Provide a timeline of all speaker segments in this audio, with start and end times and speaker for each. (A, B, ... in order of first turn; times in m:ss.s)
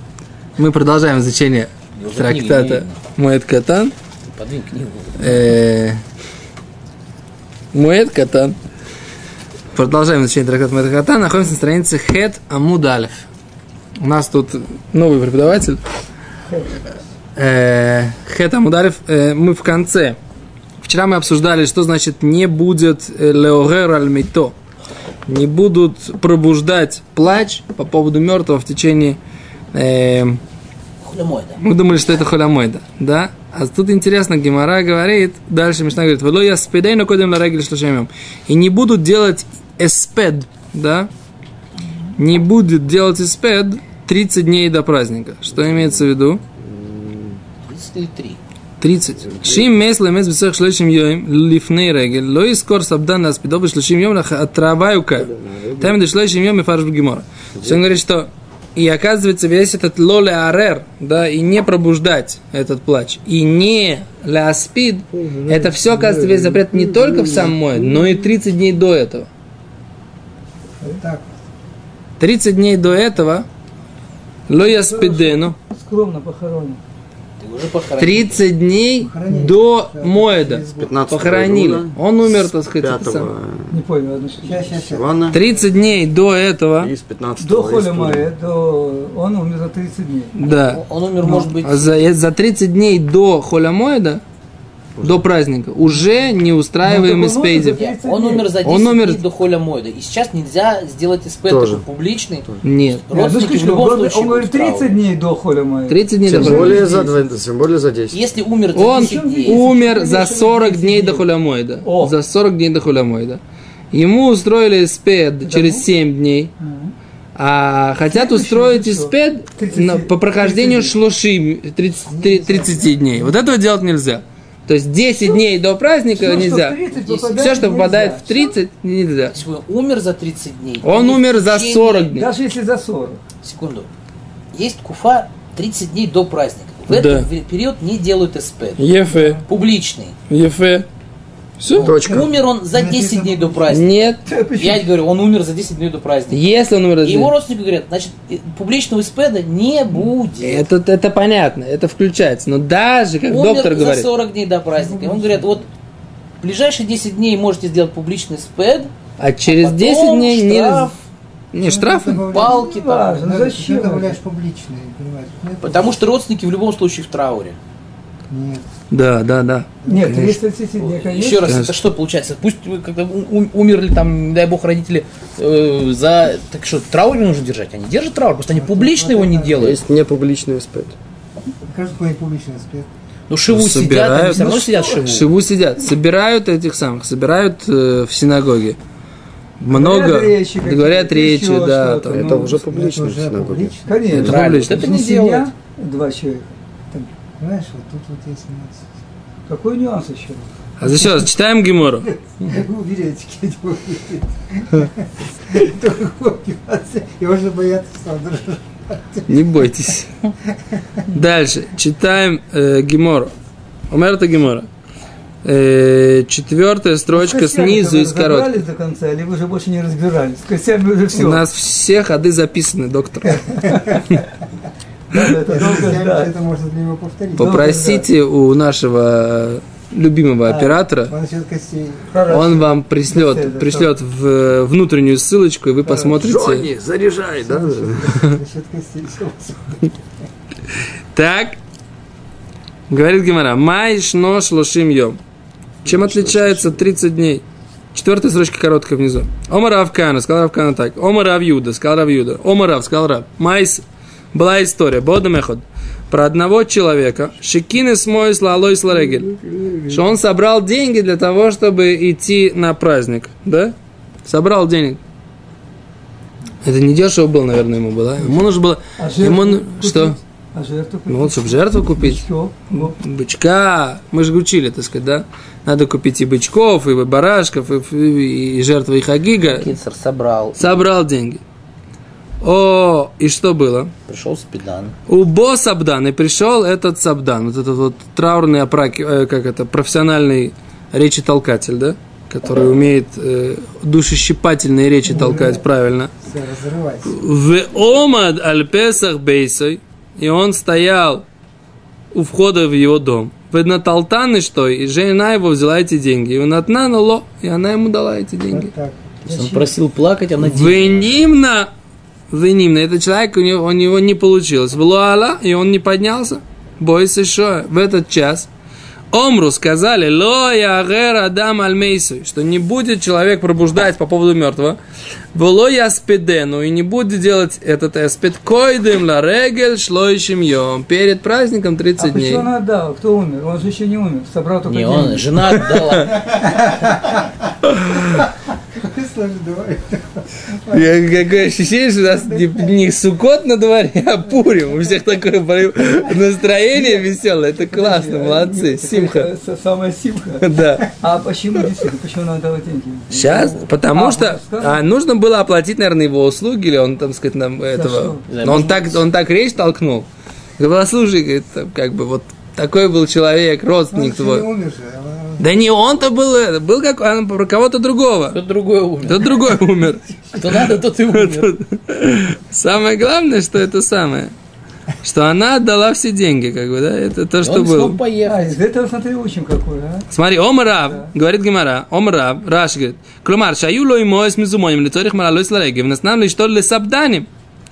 0:00.6-0:03.9 A
0:02.0-0:03.0 B
0:04.3-0:05.4 B
0:05.2-0:06.0 A
0:07.7-0:08.6 A
0:09.7-0:13.3 A
0:14.0-0:15.8 A
0:16.5-0:16.8 C
0:17.4-0:20.2 A
0:20.8-0:24.6 A
0:25.3-0:29.2 A
0:29.7-0:30.4 A
0:31.0-0:31.6 B
0:31.6-0:41.1 A
0:42.2-0:46.4 A
0:45.5-0:46.0 D
0:46.6-0:47.4 D
0:47.7-0:48.4 B
0:48.8-1:09.3 A
0:49.2-0:49.8 D
0:55.2-0:56.0 D
0:57.6-0:57.9 D
1:05.1-1:07.6 D
1:10.9-1:11.3 E
1:12.2-1:13.5 A
1:14.5-1:15.6 A
1:14.5-1:16.8 C
1:17.4-1:18.4 B
1:18.0-1:23.3 A
1:19.0-1:21.1 E
1:20.8-1:23.7 D
1:23.7-1:24.9 C
1:24.4-1:25.7 E
1:24.9-1:25.4 D
1:25.3-1:26.9 A
1:26.8-1:28.3 D
1:27.4-1:30.3 C
1:30.4-1:34.2 A
1:30.4-1:32.0 B
1:35.0-1:35.3 D
1:35.0-1:37.8 A
1:36.8-1:38.5 C
1:37.7-1:42.5 B
1:38.6-1:39.2 A
1:41.5-1:41.8 D
1:42.6-1:43.0 A
1:43.0-1:45.0 B
1:43.1-1:47.1 C
1:45.9-1:46.9 A
1:46.3-1:48.2 D
1:48.1-1:49.6 B
1:48.8-1:53.4 A
1:48.8-1:51.3 C
1:51.8-1:52.2 C
1:53.9-1:56.5 A
1:55.4-1:55.9 C
1:56.6-1:56.9 C
1:57.4-2:09.4 A
1:58.1-2:01.0 C
2:02.1-2:03.2 E
2:06.1-2:08.6 C
2:07.0-2:07.6 B
2:09.3-2:12.1 B
2:10.8-2:12.3 A
2:12.2-2:13.2 C
2:13.4-2:13.9 B
2:14.5-2:18.9 B
2:16.9-2:17.3 A
2:18.8-2:19.4 A
2:19.1-2:19.4 C
2:19.4-2:20.2 B
2:20.3-2:20.9 A
2:21.6-2:22.0 A
2:21.7-2:23.9 B
2:21.8-2:23.9 E
2:21.8-2:22.3 D
2:23.7-2:24.2 A
2:24.3-2:24.9 C
2:24.6-2:26.5 B
2:26.3-2:27.3 A
2:27.0-2:30.7 B
2:30.4-2:34.1 A
2:33.3-2:35.7 B
2:34.7-2:35.7 E
2:36.4-2:38.9 B
2:39.2-2:40.9 A
2:39.4-2:41.0 B
2:41.5-2:42.3 A
2:41.6-2:46.0 E
2:42.3-2:43.2 B
2:42.3-2:44.2 C
2:45.6-2:47.6 B
2:48.3-2:48.7 E
2:48.9-2:50.4 A
2:49.8-2:50.3 E
2:49.9-2:51.6 C
2:50.8-2:59.8 B
2:51.5-2:51.7 A
2:58.5-2:59.8 E
2:59.6-3:01.0 D
3:01.7-3:02.9 E
3:03.3-3:05.3 B
3:03.5-3:08.8 A
3:09.6-3:12.4 A
3:09.7-3:12.6 C
3:12.1-3:13.7 D
3:12.6-3:14.3 E
3:13.9-3:17.1 C
3:14.1-3:14.9 A
3:14.2-3:15.5 B
3:17.4-3:18.9 E
3:19.5-3:21.2 C
3:20.8-3:22.1 A
3:22.1-3:29.8 E
3:29.3-3:30.1 A
3:30.8-3:31.0 E
3:31.1-3:33.3 A
3:33.9-3:34.7 A
3:35.4-3:38.6 A
3:37.1-3:41.4 C
3:41.1-3:43.8 A
3:43.7-3:44.0 C
3:45.1-3:46.3 C
3:45.5-3:47.7 E
3:47.4-3:48.1 C
3:47.4-3:51.1 A
3:50.5-3:50.8 C
3:51.1-3:52.3 E
3:52.1-3:53.9 C
3:52.3-3:56.7 A
3:55.8-3:56.2 C
3:56.2-3:58.2 D
3:57.4-3:59.9 E
4:01.1-4:01.6 A
4:02.9-4:05.2 A
4:05.8-4:25.0 A
4:05.9-4:06.6 D
4:26.6-4:30.2 A
4:29.0-4:33.0 C
4:31.1-4:39.7 A
4:39.4-4:40.6 B
4:40.6-4:41.4 A
4:42.4-4:43.9 A
4:44.1-4:45.0 B
4:45.1-4:56.1 A
4:55.1-4:55.6 E
4:56.2-4:57.2 E
4:57.1-5:01.2 A
5:02.1-5:08.7 A
5:08.5-5:09.0 E
5:09.2-5:09.7 C
5:09.3-5:11.1 B
5:10.4-5:11.7 A
5:12.3-5:18.5 A
5:19.1-5:24.8 A
5:25.3-5:32.5 A
5:32.0-5:35.6 C
5:34.7-5:36.2 B
5:35.5-5:36.2 A
5:36.2-5:42.8 E
5:37.6-5:38.2 A
5:40.7-5:49.3 A
5:46.7-5:54.8 C
5:50.4-5:51.0 A
5:53.1-6:04.5 A
5:57.7-5:58.3 C
5:58.3-5:59.0 B
6:03.9-6:05.7 E
6:05.4-6:08.4 A
6:08.3-6:09.4 B
6:09.0-6:14.3 A
6:10.3-6:11.5 B
6:15.0-6:18.0 A
6:17.4-6:18.5 B
6:18.2-6:20.1 C
6:20.1-6:27.3 A
6:20.7-6:21.1 C